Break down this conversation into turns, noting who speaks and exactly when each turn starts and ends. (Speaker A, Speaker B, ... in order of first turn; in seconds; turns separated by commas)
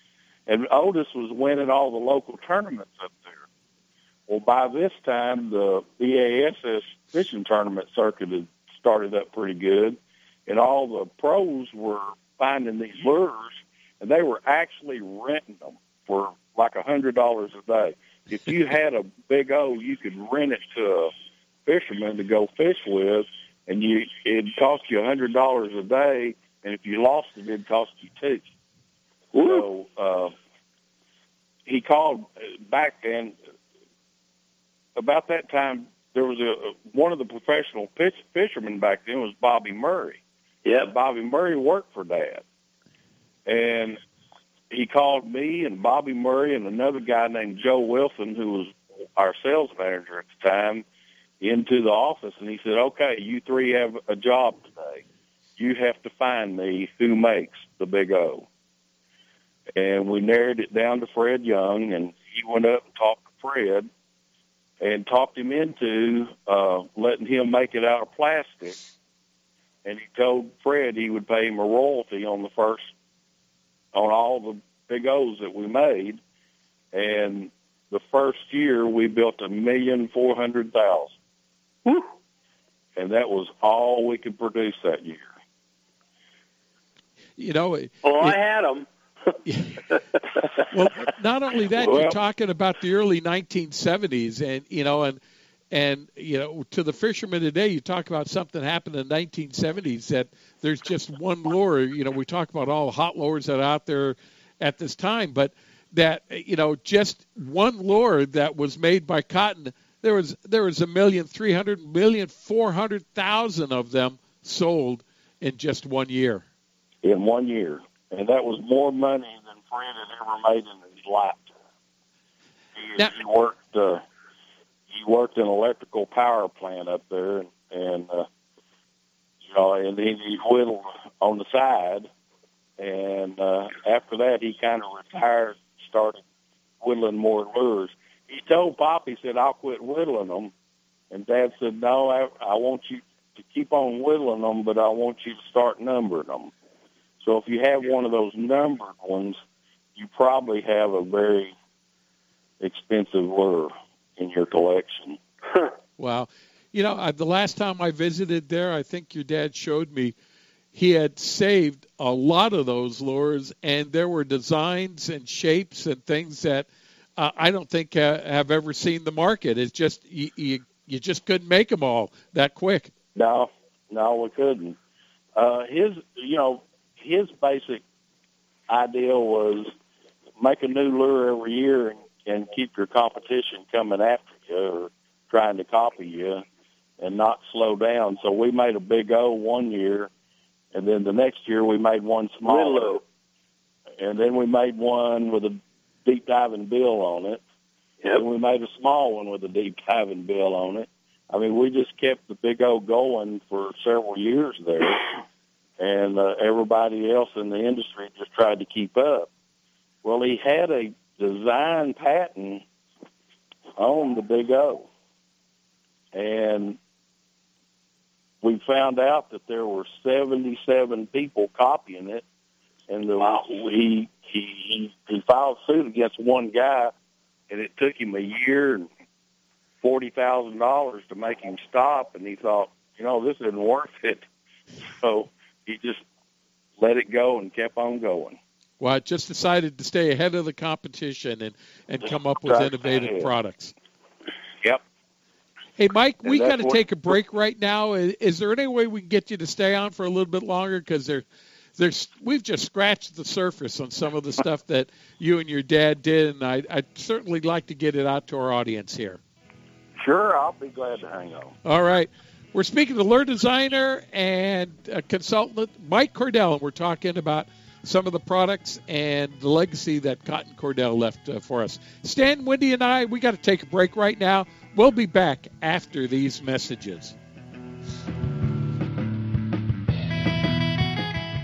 Speaker A: 0.5-3.4, Speaker A: 4.3-21.1, Speaker A: 21.6-28.5, Speaker B: 29.3-29.6, Speaker A: 29.4-30.3, Speaker A: 31.6-33.4, Speaker A: 35.0-40.2, Speaker B: 40.6-40.9, Speaker A: 40.8-42.4, Speaker A: 43.5-44.0, Speaker A: 44.7-50.8, Speaker A: 51.4-55.0, Speaker A: 55.6-58.5, Speaker A: 59.8-63.9, Speaker A: 64.8-68.8, Speaker A: 69.8-72.9, Speaker A: 73.9-76.2, Speaker A: 76.9-81.1, Speaker A: 83.0-85.3, Speaker C: 87.4-88.3, Speaker B: 88.0-88.8, Speaker C: 89.5-89.7, Speaker C: 90.7-95.2, Speaker A: 91.7-92.2, Speaker C: 95.7-116.4, Speaker A: 117.0-121.5, Speaker A: 122.8-124.0, Speaker A: 124.9-128.2, Speaker A: 129.4-132.1, Speaker A: 132.8-136.2, Speaker A: 136.8-140.5, Speaker A: 141.1-146.5, Speaker A: 147.2-149.4, Speaker A: 149.9-151.5, Speaker A: 152.6-155.2, Speaker C: 156.0-160.1, Speaker C: 160.7-172.9, Speaker A: 173.1-174.8, Speaker A: 175.3-177.8, Speaker A: 178.7-179.7, Speaker A: 180.4-186.4, Speaker A: 187.0-190.1, Speaker A: 190.7-193.0, Speaker B: 192.4-193.0, Speaker A: 194.0-197.4, Speaker A: 198.1-205.0, Speaker A: 205.8-209.3, Speaker A: 210.0-212.6, Speaker A: 213.8-214.9, Speaker A: 216.1-216.8, Speaker A: 218.4-222.2, Speaker A: 222.9-226.9, Speaker B: 223.2-223.4, Speaker A: 227.5-228.9, Speaker A: 229.8-234.2, Speaker A: 235.0-236.0, Speaker A: 236.8-238.4, Speaker C: 238.8-243.7, Speaker A: 242.0-243.3, Speaker C: 245.8-251.2, Speaker A: 246.2-246.8, Speaker C: 251.8-259.2, Speaker A: 260.0-261.5, Speaker C: 261.6-277.1